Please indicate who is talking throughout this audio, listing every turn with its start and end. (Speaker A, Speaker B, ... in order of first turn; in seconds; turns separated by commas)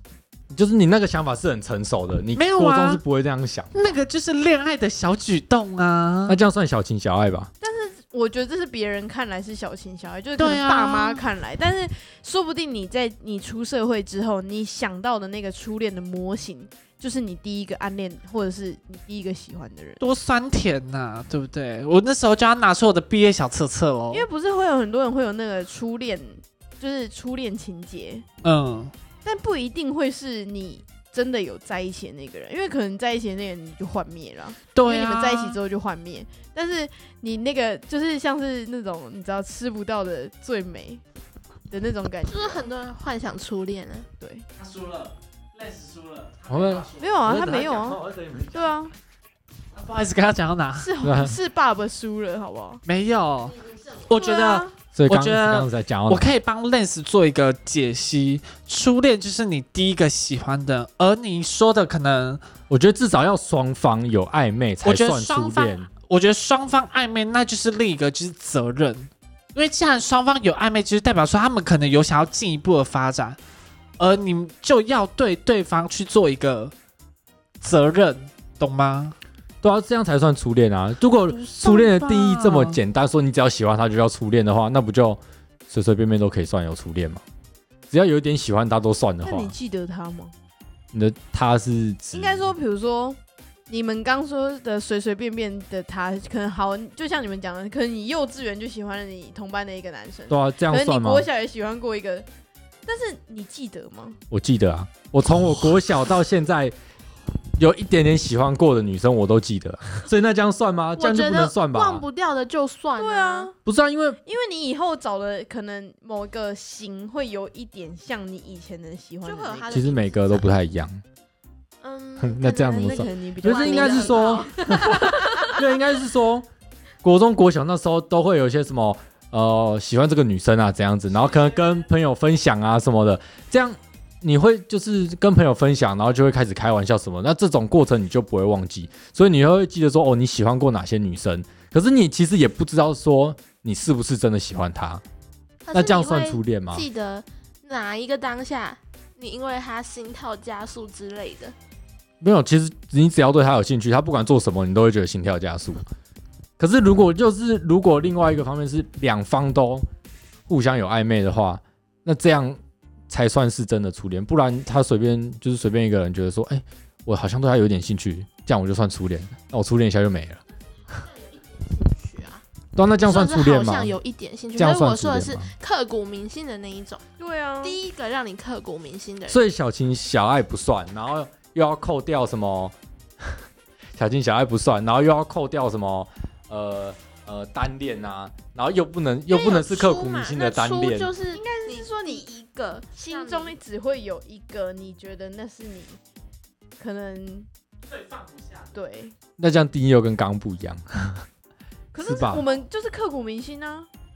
Speaker A: 0.5-3.9, Speaker B: 2.3-3.0, Speaker B: 3.7-6.4, Speaker A: 6.3-7.5, Speaker C: 7.6-20.0, Speaker B: 10.4-11.2, Speaker B: 20.0-24.3, Speaker C: 24.1-28.2, Speaker B: 28.4-28.9, Speaker C: 29.2-41.0, Speaker B: 34.7-35.6, Speaker C: 41.7-42.7, Speaker D: 42.3-44.1, Speaker C: 44.2-44.4, Speaker B: 44.6-47.2, Speaker A: 46.5-48.7, Speaker C: 47.0-48.9, Speaker B: 49.7-50.9, Speaker C: 50.8-52.8, Speaker A: 51.0-51.3, Speaker B: 52.9-62.4, Speaker D: 54.2-54.6, Speaker C: 54.2-54.6, Speaker A: 54.9-56.3, Speaker A: 62.7-65.9, Speaker B: 64.8-73.4, Speaker B: 74.0-76.7, Speaker B: 77.6-79.2, Speaker A: 79.6-87.2, Speaker B: 81.3-82.8, Speaker A: 87.9-89.5, Speaker C: 89.2-90.3, Speaker A: 90.9-92.5, Speaker C: 92.1-102.3, Speaker A: 100.3-101.2, Speaker C: 102.8-104.2, Speaker A: 104.3-106.7, Speaker A: 107.6-112.0, Speaker D: 111.0-113.5, Speaker C: 113.0-113.5, Speaker A: 113.6-114.2, Speaker C: 114.2-119.8, Speaker D: 119.2-120.5, Speaker A: 119.7-121.0, Speaker D: 121.8-125.2, Speaker A: 122.2-126.5, Speaker C: 122.7-125.5, Speaker A: 127.0-145.0, Speaker D: 145.7-151.5, Speaker A: 145.7-146.8, Speaker A: 152.2-155.8, Speaker A: 156.6-159.8, Speaker A: 160.5-162.6, Speaker A: 163.1-170.4, Speaker D: 170.9-172.4, Speaker A: 172.7-173.9, Speaker D: 173.0-177.0, Speaker A: 174.6-175.5, Speaker C: 177.2-177.8, Speaker D: 177.6-179.4, Speaker A: 179.3-182.7, Speaker A: 183.9-191.1, Speaker D: 189.3-193.5, Speaker C: 191.3-192.3, Speaker C: 192.8-196.0, Speaker C: 196.8-197.5, Speaker C: 198.7-199.1, Speaker A: 199.4-201.2, Speaker C: 201.9-203.9, Speaker A: 202.0-202.4